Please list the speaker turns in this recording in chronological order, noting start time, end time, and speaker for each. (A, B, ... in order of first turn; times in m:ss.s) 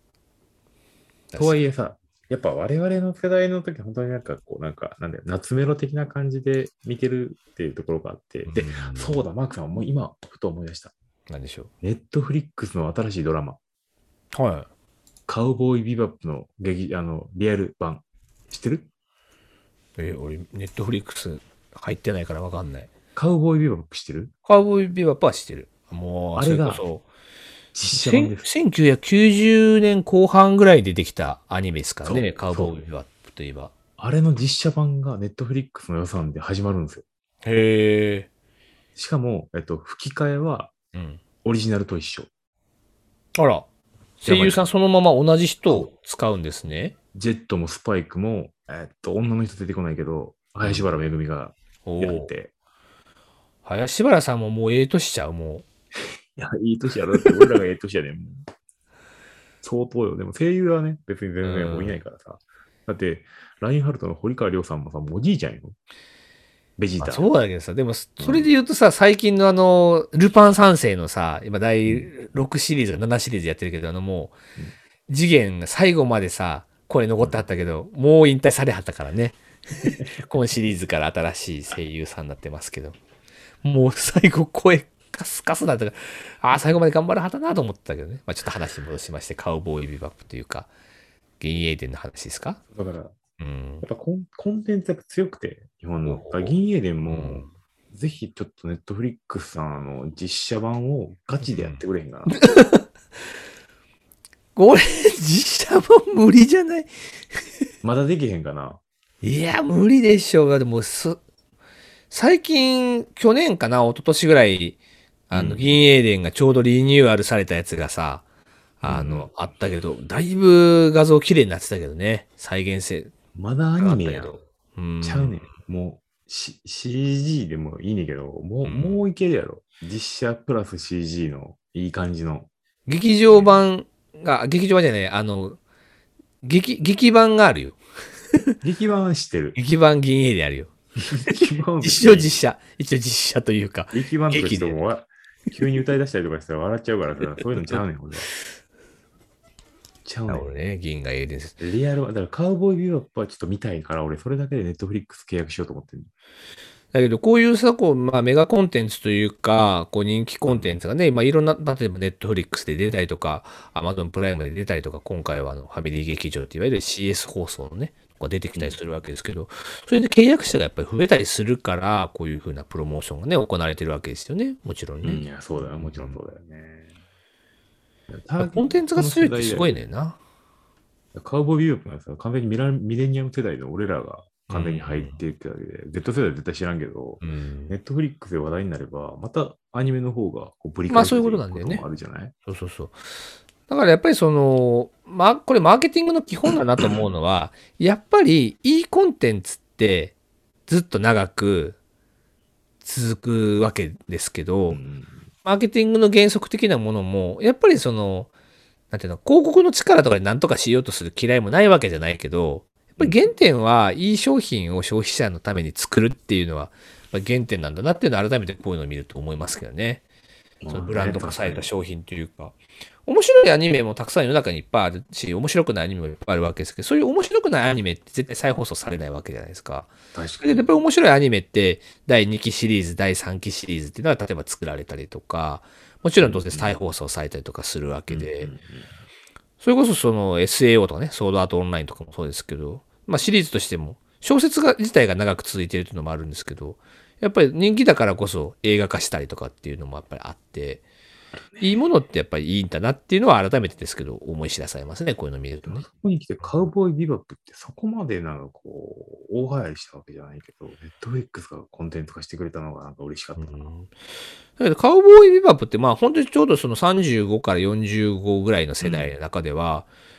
0:01.3-0:01.6 A
0:01.4-0:10.9 B
0:08.4-0:09.2 A
0:11.3-0:11.7 A
0:11.8-0:13.6 B
0:14.3-0:14.7 A
0:15.3-0:18.9 B
0:20.0-0:22.9 A
0:23.1-0:24.3 B
0:24.4-0:27.0 A
0:26.4-0:26.8 B
0:27.7-0:28.5 B
0:27.9-0:33.7 A
0:32.0-0:32.8 B
0:34.0-0:37.0 B
0:37.4-0:38.3 A
0:39.0-0:40.7 B
0:40.9-0:41.2 A
0:41.4-0:42.3 B
0:43.3-0:43.6 A
0:44.2-0:47.0 A
0:44.2-0:44.6 B
0:47.1-0:52.5 B
0:50.6-0:50.9 A
0:51.8-0:52.3 A
0:53.6-0:55.6 A
0:56.4-0:58.4 B
0:59.6-1:05.8 B
1:01.4-1:02.0 A
1:06.8-1:07.3 B
1:07.0-1:14.3 A
1:08.2-1:08.5 B
1:15.1-1:23.0 A
1:23.6-1:30.7 A
1:31.4-1:32.6 A
1:32.7-1:33.2 B
1:33.4-1:33.8 A
1:33.8-1:42.3 B
1:36.0-1:36.5 A
1:37.1-1:37.5 A
1:41.4-1:42.9 A
1:44.5-1:47.5 A
1:47.8-1:48.8 B
1:49.2-1:51.2 A
1:52.1-1:54.8 A
1:55.3-1:58.2 A
1:55.3-1:55.8 B
1:58.8-2:03.1 A
1:58.8-1:59.3 B
2:03.3-2:04.4 B
2:03.8-2:05.4 A
2:05.0-2:12.5 B
2:08.6-2:09.0 A
2:12.9-2:15.6 A
2:13.3-2:13.6 B
2:16.4-2:17.8 A
2:18.6-2:19.6 B
2:19.6-2:20.7 A
2:21.0-2:22.4 B
2:21.3-2:24.8 A
2:23.9-2:28.3 B
2:30.0-2:30.4 B
2:30.3-2:31.6 A
2:31.6-2:36.1 B
2:36.9-2:56.2 A
2:40.5-2:40.8 B
2:55.0-2:56.9 B
2:58.1-2:59.7 B
2:58.4-3:00.2 A
3:01.1-3:12.3 B
3:04.5-3:05.2 A
3:07.2-3:07.7 A
3:10.9-3:11.8 A
3:12.5-3:13.0 A
3:13.7-3:20.1 A
3:20.7-3:21.8 A
3:22.8-3:24.8 A
3:24.7-3:25.3 B
3:25.4-3:28.3 A
3:28.9-3:40.0 A
3:33.0-3:33.3 B
3:40.6-3:41.6 B
3:40.7-3:42.5 A
3:43.0-3:58.5 A
3:50.1-3:50.7 B
3:56.2-3:56.8 B
3:58.1-3:58.9 B
3:59.6-4:10.8 A
4:11.6-4:15.8 A
4:15.6-4:23.7 B
4:23.4-4:23.9 A
4:24.6-4:29.9 A
4:28.8-4:29.1 B